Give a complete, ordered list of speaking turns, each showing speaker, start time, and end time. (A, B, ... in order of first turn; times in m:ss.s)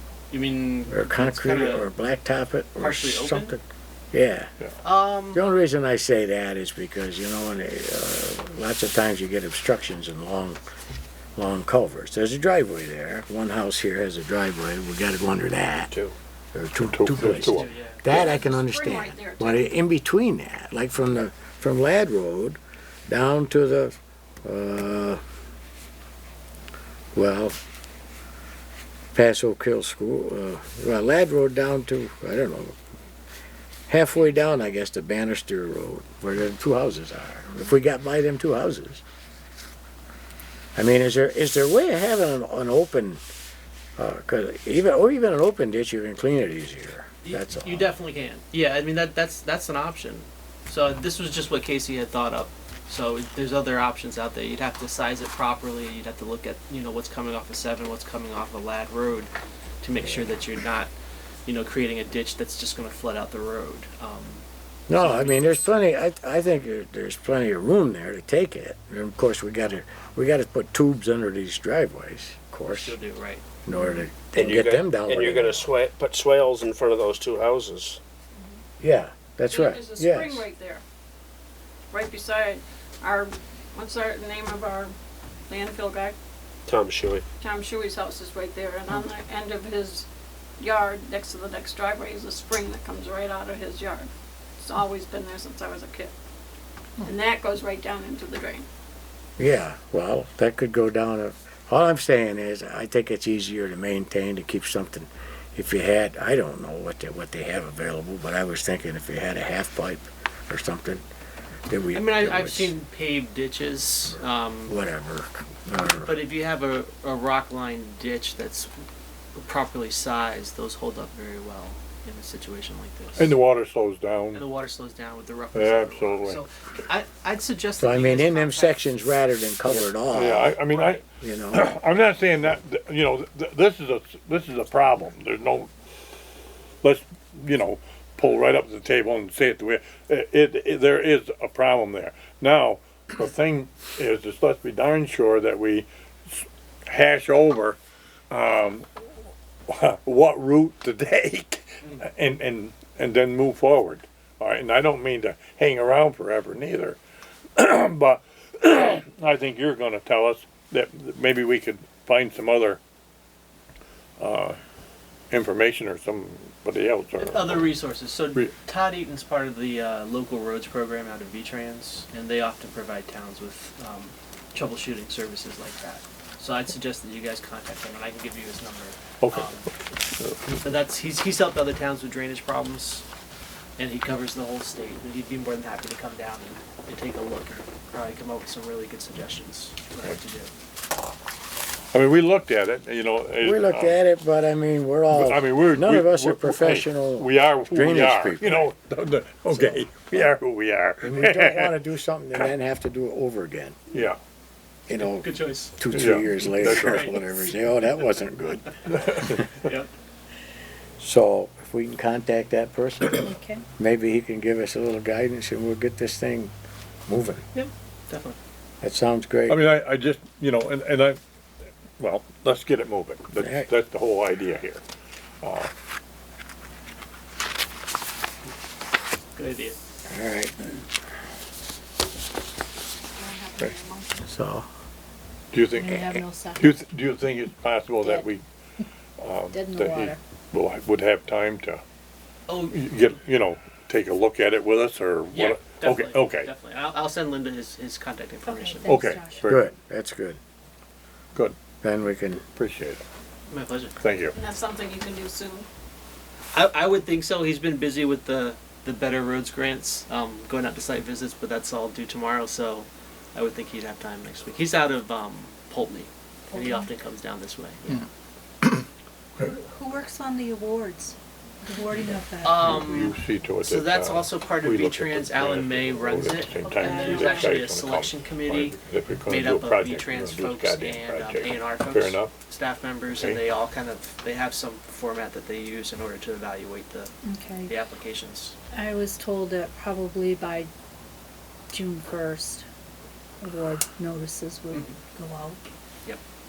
0:00.3-0:01.9 A
0:00.9-0:04.5 B
0:02.8-0:03.6 A
0:04.8-0:05.4 A
0:05.3-0:10.6 B
0:11.4-0:15.9 B
0:16.5-0:25.2 B
0:16.8-0:17.7 C
0:17.5-0:18.2 A
0:18.1-0:19.8 D
0:27.2-0:27.6 B
0:29.2-0:32.8 B
0:33.9-0:39.0 B
0:40.8-0:43.2 B
0:44.0-0:47.9 B
0:47.2-1:00.9 A
1:01.5-1:05.7 A
1:04.9-1:13.0 B
1:12.7-1:13.4 A
1:13.6-1:15.7 B
1:14.3-1:18.0 E
1:18.8-1:20.5 B
1:19.5-1:20.8 D
1:21.9-1:24.9 D
1:25.5-1:26.1 D
1:26.7-1:27.2 E
1:27.4-1:30.1 D
1:30.6-1:34.1 D
1:34.6-1:36.1 D
1:37.0-1:38.7 D
1:39.4-1:51.0 B
1:51.7-1:52.7 B
1:51.9-1:54.8 A
1:54.7-1:56.2 B
1:55.8-1:58.7 A
1:59.4-2:03.3 A
2:03.2-2:04.4 C
2:04.3-2:09.1 A
2:05.6-2:06.4 C
2:07.8-2:11.7 B
2:09.7-2:15.7 C
2:16.8-2:27.8 C
2:28.3-2:28.9 C
2:29.7-2:37.0 C
2:37.6-2:42.8 C
2:44.2-2:44.6 C
2:45.3-2:47.7 C
2:47.2-2:59.7 A
2:59.2-2:59.5 C
3:00.2-3:00.6 C
3:00.6-3:03.0 A
3:03.8-3:10.5 A
3:11.9-3:14.0 C
3:13.4-3:18.7 B
3:15.1-3:21.8 C
3:19.5-3:20.3 B
3:21.0-3:23.8 B
3:23.9-3:24.2 C
3:24.9-3:25.3 B
3:24.9-3:25.8 A
3:25.8-3:29.5 B
3:25.9-3:27.1 C
3:26.6-3:27.2 A
3:28.9-3:29.4 C
3:29.6-3:29.9 A
3:31.0-3:36.5 B
3:33.2-3:33.6 F
3:37.1-3:37.4 B
3:37.5-3:38.4 A
3:38.8-3:39.6 B
3:39.5-3:41.2 C
3:42.0-3:44.8 C
3:43.4-3:43.7 B
3:45.4-3:45.7 C
3:49.4-3:49.8 A
3:50.1-3:50.5 B
3:53.2-3:54.3 D
3:54.2-3:54.7 B
3:55.5-3:58.4 C
3:55.8-3:56.8 F
3:58.0-3:58.3 F
3:59.2-4:01.8 C
3:59.5-4:00.2 F
4:02.5-4:03.0 A
4:02.7-4:06.5 C
4:05.3-4:09.0 A
4:08.4-4:09.5 F
4:08.9-4:09.7 C
4:09.4-4:10.4 B
4:11.8-4:12.4 B
4:12.6-4:13.0 C
4:13.5-4:14.0 A
4:14.0-4:14.3 C
4:14.3-4:15.7 D
4:16.5-4:28.1 A
4:26.5-4:26.9 F
4:29.4-4:33.2 F
4:32.0-4:42.3 C
4:32.4-4:47.1 A
4:36.6-4:37.3 F
4:37.1-4:37.5 D
4:43.1-4:43.4 C
4:47.2-4:47.7 F
4:47.6-4:48.6 A
4:48.7-4:50.7 F
4:51.7-4:52.6 F
4:53.4-4:55.6 F